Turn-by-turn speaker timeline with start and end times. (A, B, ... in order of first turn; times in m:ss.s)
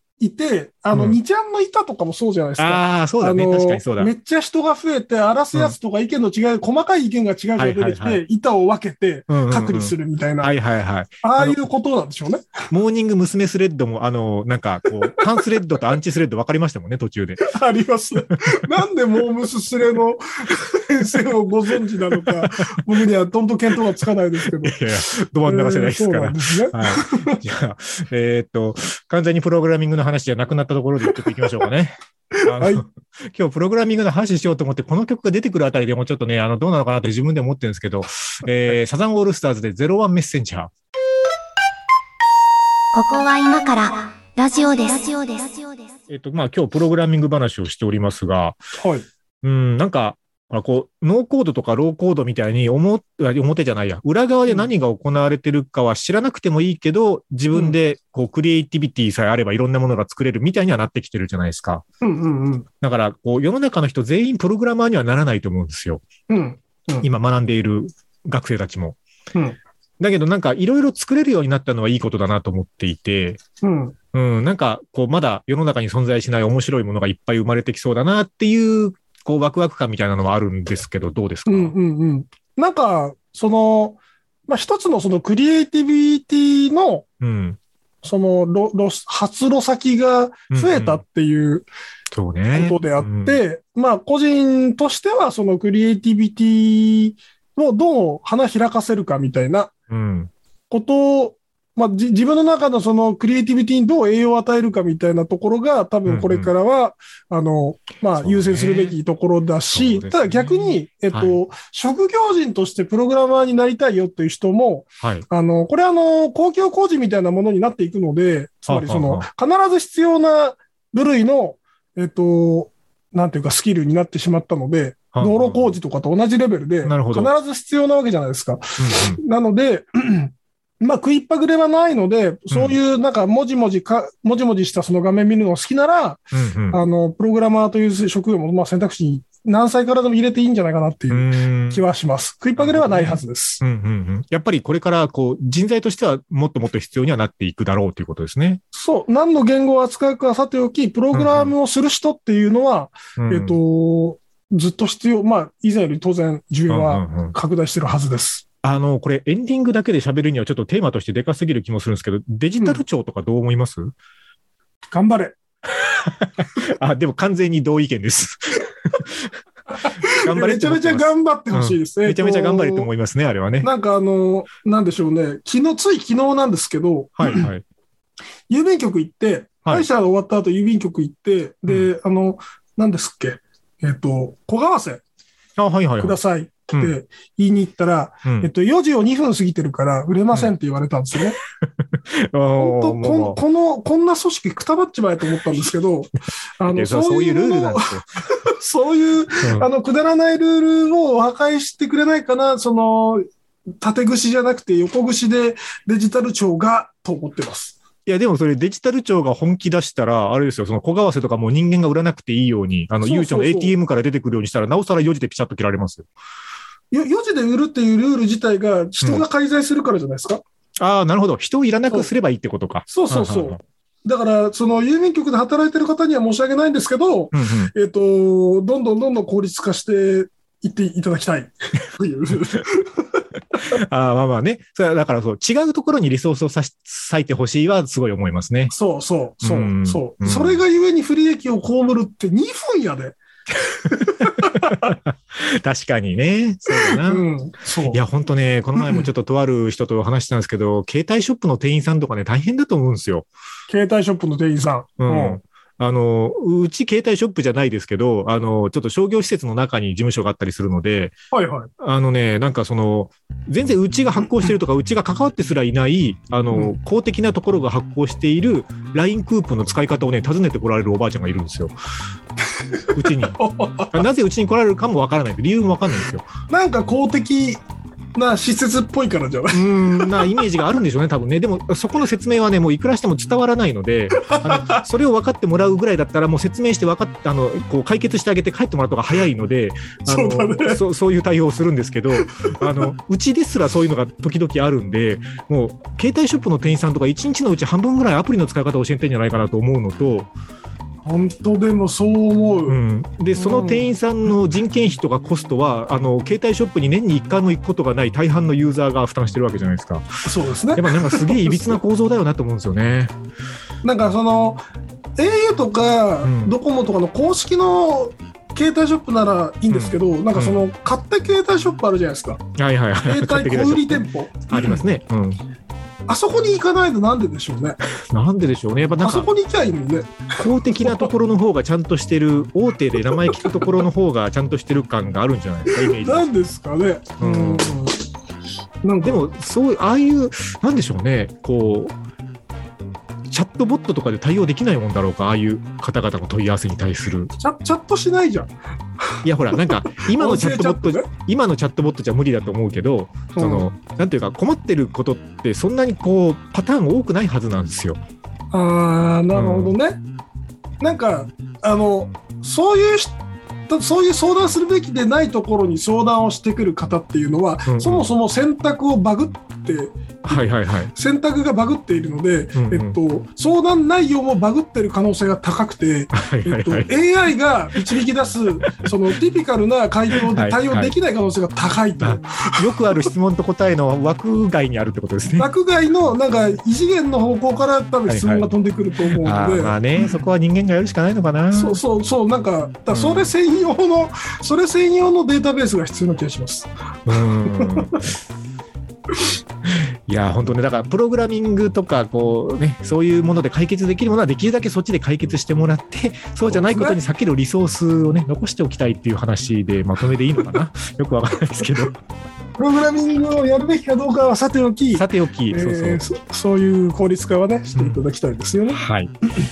0:00.2-0:10.5 A
0:00.9-0:01.2 B
0:02.6-0:04.1 B
0:07.6-0:08.2 B
0:09.3-0:11.6 B
0:11.2-0:12.6 A
0:12.7-0:17.4 B
0:15.1-0:15.4 A
0:17.4-0:24.8 A
0:21.9-0:22.8 B
0:24.6-0:40.7 B
0:25.4-0:27.4 A
0:32.3-0:32.8 A
0:42.9-0:46.0 C
0:46.1-0:48.6 B
0:48.8-0:49.0 A
0:49.4-1:01.8 B
1:02.0-1:02.7 A
1:02.8-1:06.0 B
1:06.3-1:07.1 A
1:07.0-1:09.0 B
1:10.0-1:13.4 B
1:13.6-1:13.9 A
1:14.1-1:21.7 B
1:21.4-1:27.0 A
1:27.2-1:27.6 B
1:28.0-1:31.6 A
1:30.5-1:31.0 B
1:32.1-1:33.4 B
1:32.5-1:39.7 A
1:39.9-1:40.3 B
1:40.7-2:23.6 A
1:46.0-1:46.5 B
1:48.2-1:49.0 B
1:49.7-1:51.4 B
1:55.0-1:55.2 B
1:58.7-1:59.3 B
2:05.1-2:05.7 B
2:06.8-2:07.3 B
2:08.8-2:09.2 B
2:12.5-2:12.8 B
2:16.3-2:16.8 B
2:21.1-2:21.8 B
2:22.6-2:28.6 B
2:28.7-2:38.4 A
2:31.1-2:31.5 B
2:33.2-2:33.6 B
2:36.7-2:37.3 B
2:38.6-2:43.9 B
2:42.6-2:42.8 A
2:44.9-2:45.4 A
2:45.7-2:53.7 B
2:49.7-2:52.9 A
2:53.6-2:57.5 A
2:57.2-2:57.6 B
2:58.5-3:05.0 A
3:05.6-3:06.2 B
3:06.0-3:11.4 A
3:08.2-3:08.5 B
3:11.6-3:13.4 B
3:12.6-3:23.2 A
3:16.6-3:18.1 B
3:19.4-3:19.7 B
3:23.8-3:27.8 A
3:28.0-3:36.1 B
3:33.0-3:33.7 A
3:36.9-3:40.4 A
3:39.0-3:39.2 B
3:40.8-3:43.6 B
3:42.9-3:53.2 A
3:47.3-3:47.7 B
3:53.5-3:58.7 B
3:58.7-4:03.2 A
3:59.4-4:00.6 B
4:03.7-4:07.2 B
4:03.9-4:04.9 A
4:06.9-4:08.0 A
4:07.9-4:13.3 B
4:08.8-4:09.1 A
4:13.7-4:15.4 A
4:15.0-4:21.2 B
4:21.3-4:21.7 A
4:21.8-4:31.7 B
4:32.8-4:34.0 A
4:32.9-4:33.4 B
4:33.9-4:36.3 B
4:36.5-4:37.6 A
4:38.1-4:40.4 A
4:39.5-5:00.3 B
4:44.2-4:44.8 A
4:50.1-4:50.8 A
4:52.2-4:52.9 A
5:01.0-5:02.8 A
5:02.7-5:10.0 B
5:03.4-5:03.8 A
5:10.2-5:11.8 A
5:10.7-5:13.1 B
5:13.8-5:14.6 A
5:15.2-5:22.4 A
5:16.2-5:16.5 B
5:19.7-5:20.6 B
5:22.5-5:25.4 B
5:23.0-5:24.8 A
5:26.1-5:27.8 A
5:28.0-5:29.3 B
5:29.0-5:31.1 A
5:30.4-5:36.3 B
5:33.2-5:33.6 A
5:35.7-5:38.0 A
5:37.2-5:37.8 B
5:38.8-5:39.2 A
5:39.0-5:41.9 B
5:43.3-5:47.3 B
5:47.4-5:51.1 A
5:49.2-5:58.0 B
5:53.4-5:53.7 A
5:58.5-6:00.0 A
5:59.3-5:59.8 B
6:00.8-6:03.2 A
6:03.7-6:22.6 A
6:07.7-6:08.1 B
6:10.3-6:10.9 B
6:12.6-6:13.0 B
6:16.1-6:16.9 B
6:20.1-6:20.9 B
6:22.0-6:25.5 B
6:25.4-6:29.8 A
6:28.1-6:28.5 B
6:29.0-6:31.8 B
6:31.5-6:36.7 A
6:32.9-6:33.3 B
6:37.0-6:38.1 B
6:37.5-6:37.9 A
6:39.6-6:52.0 B
6:46.5-6:47.0 A
6:52.6-6:58.8 A
6:54.9-6:56.0 B
6:57.7-6:58.0 B
6:58.7-6:59.1 B